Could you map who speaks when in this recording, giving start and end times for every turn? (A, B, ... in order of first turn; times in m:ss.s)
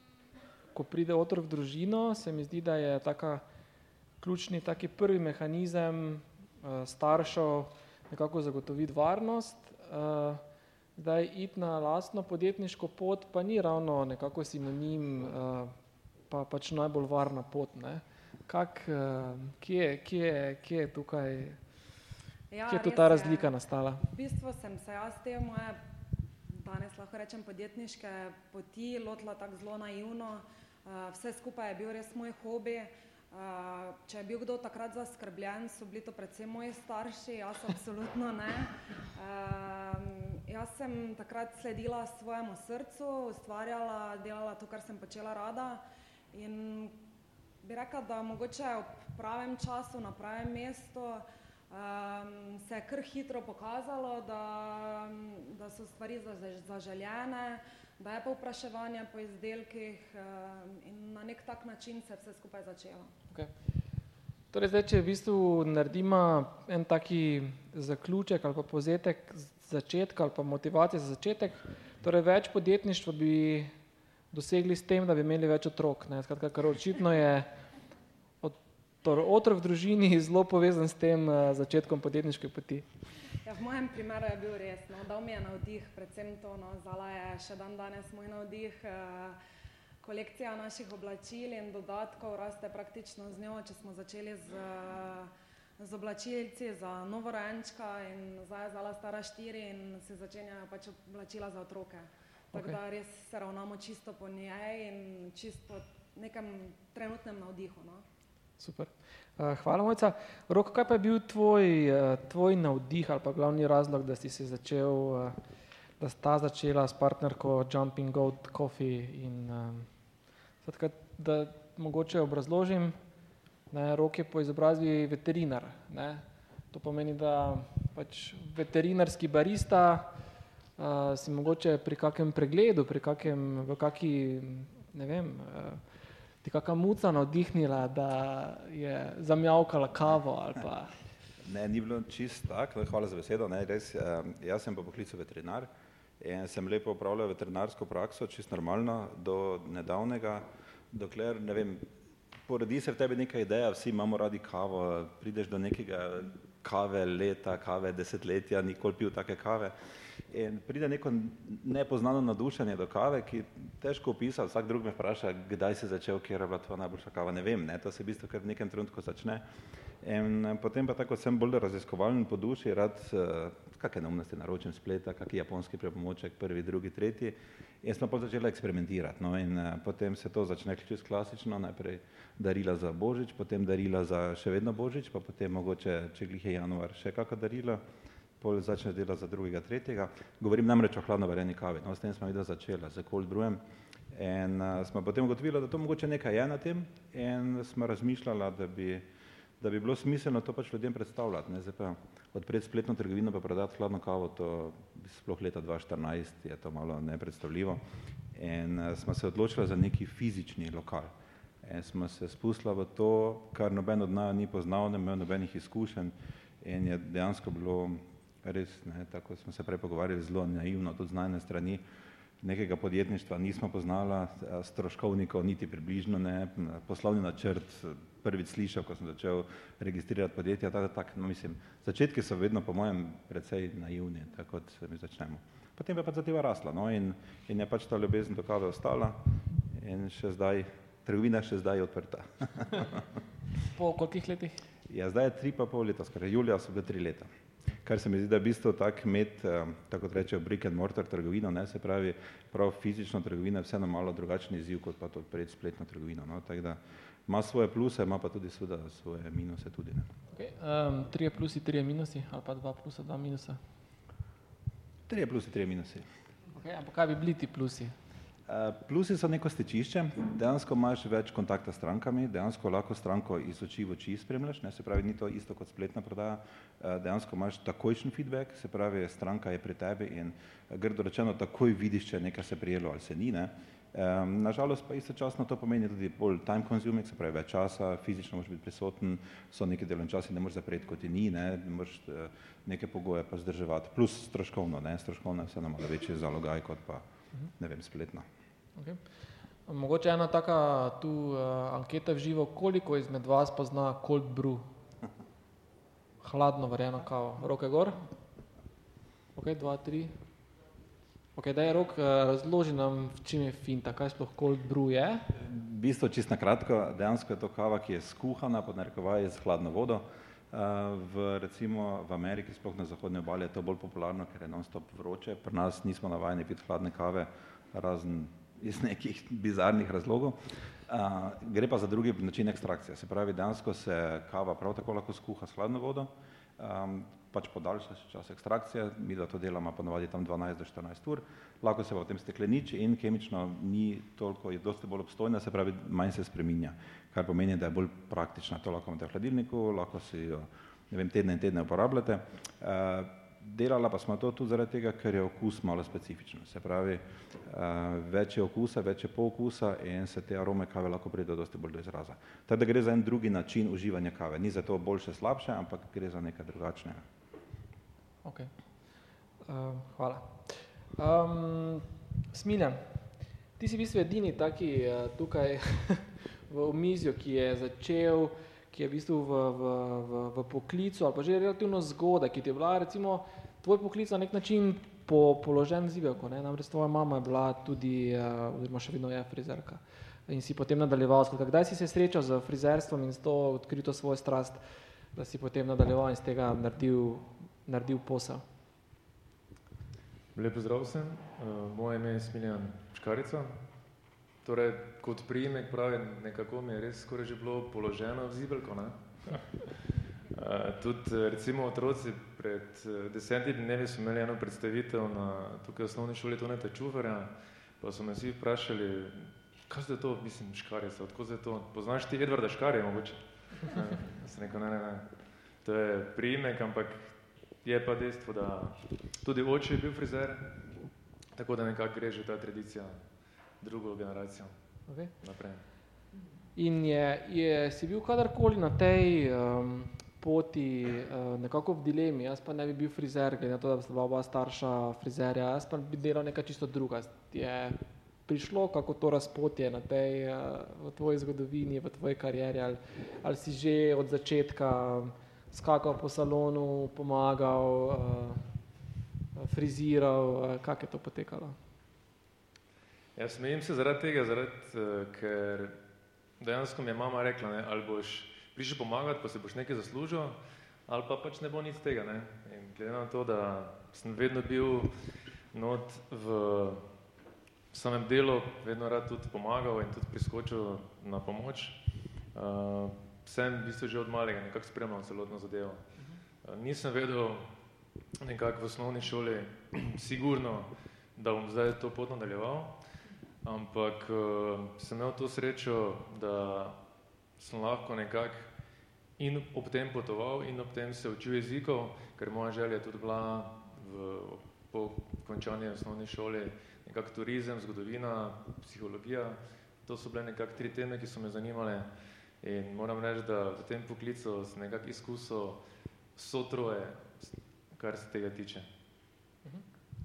0:00.7-0:03.4 A
0:04.2-0:10.4 A
0:11.0-0:15.7 A
0:16.3-0:21.6 A
0:22.5-0:23.5 B
0:22.7-0:24.0 A
0:24.1-0:25.8 B
0:26.5-0:47.0 B
0:47.6-1:03.1 B
1:04.5-1:13.7 A
1:14.3-1:17.5 A
1:18.4-1:22.8 A
1:23.4-1:29.4 B
1:30.0-1:48.0 B
1:48.6-1:55.4 A
1:56.0-1:59.9 A
2:00.6-2:03.0 A
2:03.7-2:10.1 A
2:10.8-2:15.8 A
2:16.4-2:20.9 A
2:21.4-2:25.7 C
2:26.2-2:31.8 C
2:32.5-2:39.7 C
2:40.3-2:49.4 C
2:50.0-3:07.8 C
3:08.4-3:13.6 C
3:14.1-3:19.0 C
3:19.6-3:27.8 C
3:28.3-3:31.1 C
3:31.6-3:41.8 C
3:42.4-4:03.0 C
4:03.7-4:04.6 A
4:04.9-4:07.3 C
4:07.8-4:20.1 C
4:20.3-4:23.6 A
4:25.1-4:26.1 C
4:26.5-4:27.9 A
4:28.5-4:57.0 C
4:57.6-4:58.3 C
4:59.7-5:04.6 A
5:06.2-5:08.1 A
5:09.3-5:10.1 A
5:11.4-5:15.2 A
5:15.3-6:07.0 C
6:08.2-6:08.5 A
6:09.4-6:12.8 A
6:13.6-6:34.6 A
6:35.1-6:38.4 A
6:40.3-6:43.6 D
6:44.4-6:49.8 D
6:50.3-7:05.1 D
7:05.6-7:10.5 D
7:11.3-7:13.0 D
7:13.6-7:14.5 D
7:15.2-7:15.6 D
7:16.6-7:38.4 A
7:39.4-7:41.6 A
7:43.2-7:45.8 D
7:46.4-7:54.9 D
7:55.5-7:56.8 D
7:57.7-8:05.8 D
8:06.4-8:07.5 D
8:08.2-8:12.8 D
8:13.4-8:16.8 D
8:17.4-8:18.5 D
8:19.2-8:31.9 D
8:32.4-8:35.6 D
8:36.2-8:38.7 D